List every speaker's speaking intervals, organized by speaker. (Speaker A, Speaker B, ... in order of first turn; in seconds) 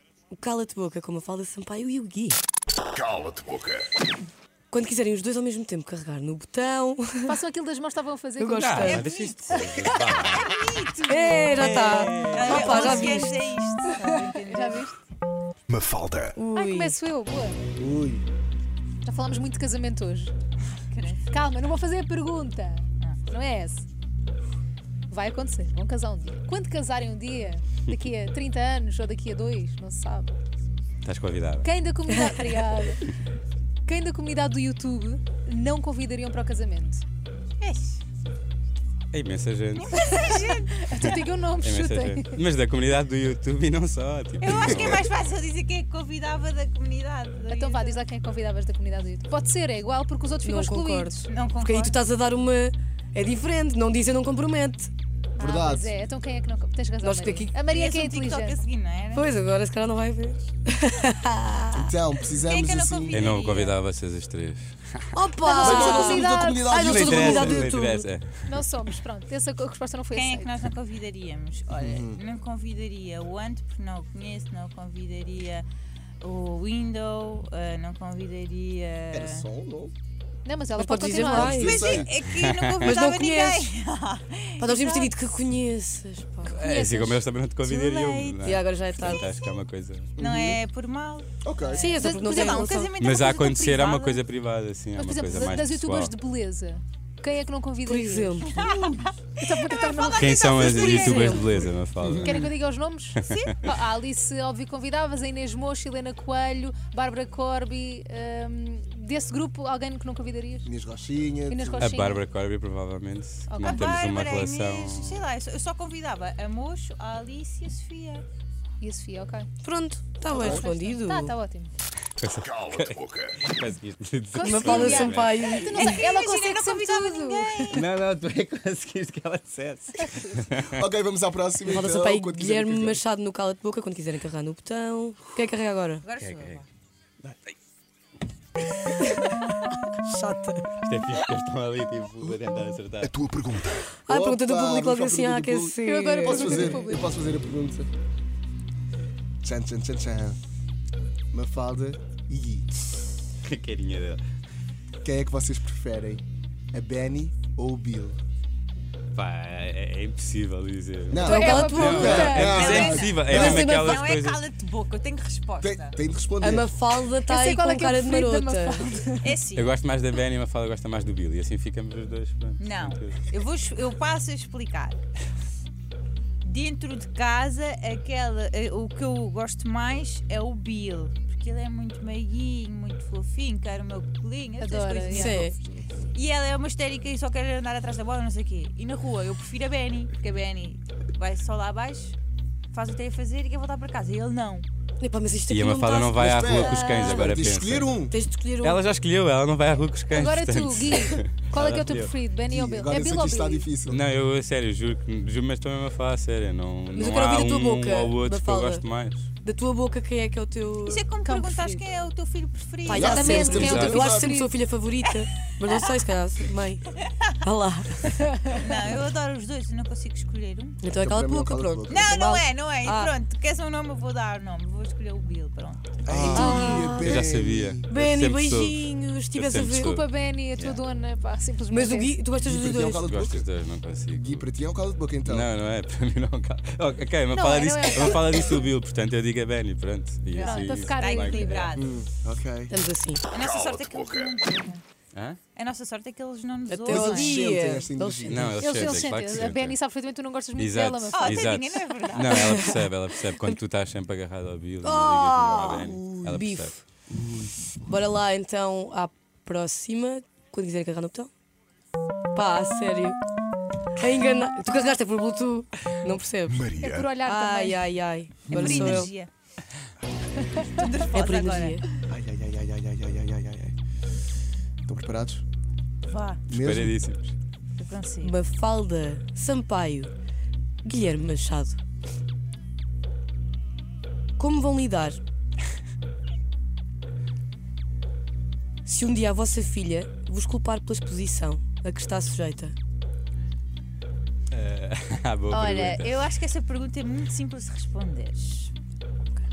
Speaker A: 0.3-2.4, 4.7-7.4, 8.4-9.1, 11.1-13.4, 16.4-17.0, 32.1-32.6, 50.4-54.9, 57.0-57.5, 59.1-61.9, 65.2-68.1, 80.8-82.0, 82.8-83.7, 84.6-86.6, 88.4-89.2, 91.7-92.9, 97.9-98.6, 101.0-101.4, 119.6-121.3, 124.4-126.0, 131.7-136.0, 139.1-139.3, 140.0-140.7, 144.1-146.8, 161.2-162.4, 163.3-164.0, 166.4-168.9, 185.1-185.6, 195.0-197.5, 198.1-198.8, 206.9-208.9, 209.4-211.0, 212.8-218.3, 220.8-223.1, 226.3-227.2, 227.9-230.0, 231.7-233.0, 242.7-243.2, 246.7-248.9, 252.2-253.6, 254.8-256.8, 257.9-261.3, 262.3-263.2, 264.0-266.7, 267.2-269.1, 271.1-271.8, 278.2-280.1, 280.8-281.8, 284.4-285.2, 288.9-292.8
Speaker B: 3.3-3.6, 15.7-16.3, 143.0-143.9, 266.5-267.1
Speaker C: 7.3-9.0, 12.6-14.9, 16.6-17.6, 19.0-20.3, 21.3-23.9, 25.1-30.4, 31.6-33.1, 33.9-37.0, 40.0-42.4, 47.5-51.3, 55.4-58.6, 65.4-67.2, 68.5-70.5, 80.5-82.0, 86.5-87.2, 92.0-92.7, 95.0-98.4, 99.4-101.5, 102.2-110.7, 111.5-112.3, 113.5-114.0, 118.8-119.5, 120.3-121.7, 124.3-127.9, 145.8-147.1, 161.2-163.0, 167.3-169.3, 184.6-185.4, 200.1-203.7, 211.2-211.8, 212.9-214.5, 229.8-232.2, 237.3-238.7, 240.3-241.7, 248.6-251.5, 266.8-267.8, 270.4-270.7
Speaker D: 8.6-10.6, 11.6-13.0, 31.0-31.7, 39.1-39.9, 41.0-45.1, 63.1-65.2, 66.7-68.6, 82.5-82.9, 86.5-90.2, 93.0-96.1, 100.2-102.5, 103.2-103.6, 111.8-115.2, 122.2-125.5, 127.7-130.8, 136.2-136.6, 140.8-143.1, 153.4-154.2, 159.2-164.4, 169.6-173.2, 195.5-197.9, 198.6-202.1, 203.9-209.3, 213.2-214.0, 226.1-228.8, 229.3-230.1, 233.0-234.5, 235.2-241.7, 248.3-249.8, 250.6-256.7, 276.5-277.4, 294.5-296.1
Speaker E: 8.8-11.7, 12.3-15.0, 20.8-21.5, 23.0-23.3, 37.6-38.0, 39.8-41.2, 44.4-48.0, 51.3-52.0, 57.7-59.3, 62.4-63.8, 70.1-75.7, 76.2-79.5, 81.5-85.2, 87.6-89.3, 90.2-94.2, 98.5-101.7, 113.6-118.2, 124.7-127.8, 136.0-136.7, 162.4-166.0, 169.2-169.7, 172.6-175.0, 176.4-185.5, 186.1-192.2, 192.7-194.7, 210.8-213.3, 218.5-220.8, 221.9-226.3, 240.3-241.9, 243.3-244.8, 245.5-247.4, 251.1-252.6, 268.5-269.3, 270.5-271.8, 276.0-276.5, 277.8-278.3, 295.5-298.7
Speaker F: 17.8-18.3, 55.4-55.9, 61.8-63.2, 65.6-67.8, 71.8-72.2, 79.1-79.9, 81.2-82.1, 90.2-90.6, 91.4-91.9, 98.5-99.1, 102.0-102.5, 110.7-112.0, 120.4-120.7, 130.7-133.0, 144.1-147.9, 149.4-150.4, 151.3-152.7, 155.0-158.2, 161.1-163.7, 165.6-166.7, 196.2-198.1, 202.5-204.0, 212.9-214.4, 220.9-222.1, 226.1-227.9, 232.4-233.5, 234.2-235.5, 241.8-242.7, 246.9-248.6, 256.0-256.4, 257.1-257.6, 272.1-273.8, 274.9-275.4, 276.5-277.0